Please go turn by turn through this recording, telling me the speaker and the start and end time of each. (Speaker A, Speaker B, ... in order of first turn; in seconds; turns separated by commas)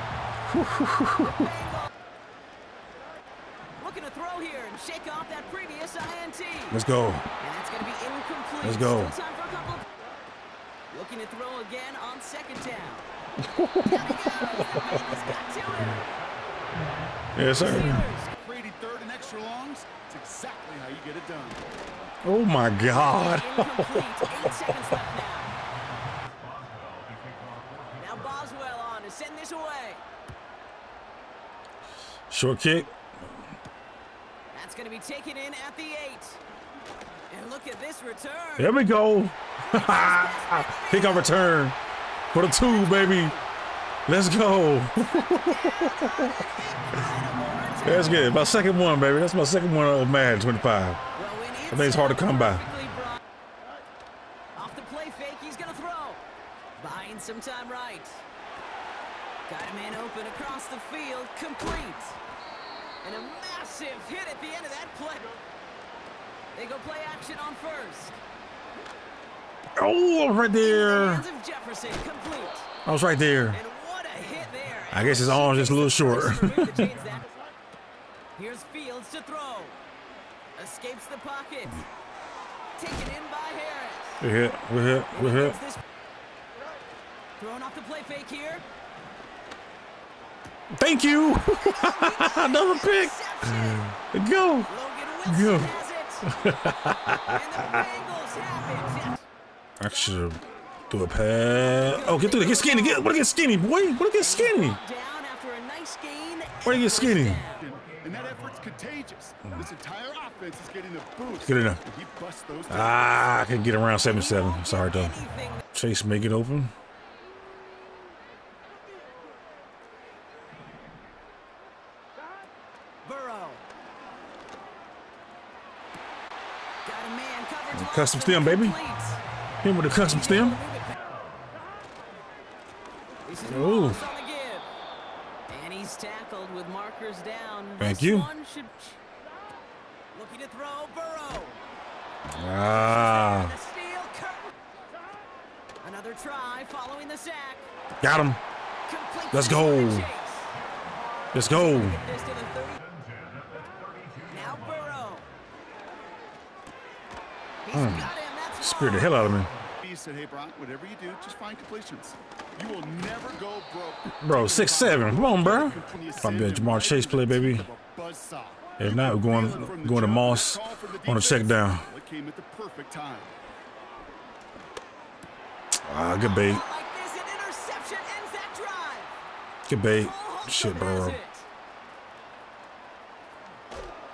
Speaker A: 0.5-1.4, Speaker B: 1.2-1.9, Speaker B: 3.8-6.8, Speaker A: 6.7-7.3, Speaker B: 7.4-9.8, Speaker A: 8.6-9.1, Speaker B: 10.9-13.1, Speaker A: 13.4-15.0, Speaker B: 13.8-16.1, Speaker A: 17.4-18.1, Speaker B: 17.5-18.3, Speaker C: 18.3-21.6, Speaker A: 22.2-25.0, Speaker B: 22.9-25.5, Speaker B: 27.9-30.0, Speaker A: 32.3-32.9, Speaker B: 34.5-36.4, Speaker B: 37.3-38.8, Speaker A: 38.6-41.8, Speaker B: 39.6-41.4, Speaker A: 42.3-43.4, Speaker B: 42.3-43.4, Speaker A: 44.1-46.4, Speaker B: 45.0-48.3, Speaker A: 47.8-51.0, Speaker B: 51.1-53.2, Speaker A: 51.7-52.6, Speaker B: 54.5-56.2, Speaker B: 56.8-58.2, Speaker B: 59.5-62.2, Speaker B: 63.0-65.4, Speaker B: 66.5-68.2, Speaker A: 69.8-71.2, Speaker B: 70.6-72.7, Speaker A: 72.8-73.6, Speaker B: 73.5-77.3, Speaker A: 74.9-76.9, Speaker B: 78.3-79.8, Speaker B: 80.5-81.8, Speaker B: 82.8-84.2, Speaker A: 84.2-85.6, Speaker B: 85.1-85.8, Speaker B: 87.4-88.6, Speaker A: 90.7-94.7, Speaker B: 91.5-93.9, Speaker B: 94.7-96.3, Speaker A: 95.2-95.7, Speaker A: 96.2-97.8, Speaker B: 97.2-99.2, Speaker A: 99.8-104.8, Speaker B: 101.8-103.1, Speaker B: 104.2-107.6, Speaker A: 106.6-107.4, Speaker C: 107.5-113.1, Speaker A: 111.4-111.8, Speaker A: 112.7-115.2, Speaker B: 114.0-115.6, Speaker A: 115.7-116.7, Speaker B: 123.0-123.6, Speaker B: 126.8-129.2, Speaker A: 127.7-128.8, Speaker A: 129.6-130.6, Speaker B: 130.0-130.9, Speaker B: 133.2-134.7, Speaker A: 133.4-134.1, Speaker B: 135.5-139.0, Speaker A: 137.8-138.3, Speaker B: 140.1-141.6, Speaker A: 142.2-143.5, Speaker B: 142.8-144.5, Speaker B: 145.8-147.7, Speaker A: 148.0-148.4, Speaker B: 148.8-150.5, Speaker A: 149.3-150.1, Speaker A: 151.3-152.0, Speaker B: 151.4-152.8, Speaker B: 154.2-155.2, Speaker B: 157.6-159.3, Speaker A: 157.7-159.5, Speaker C: 159.8-173.3, Speaker A: 164.1-167.7, Speaker A: 168.8-171.9, Speaker A: 175.8-176.6, Speaker B: 176.2-179.1, Speaker A: 179.7-181.2, Speaker B: 179.9-181.5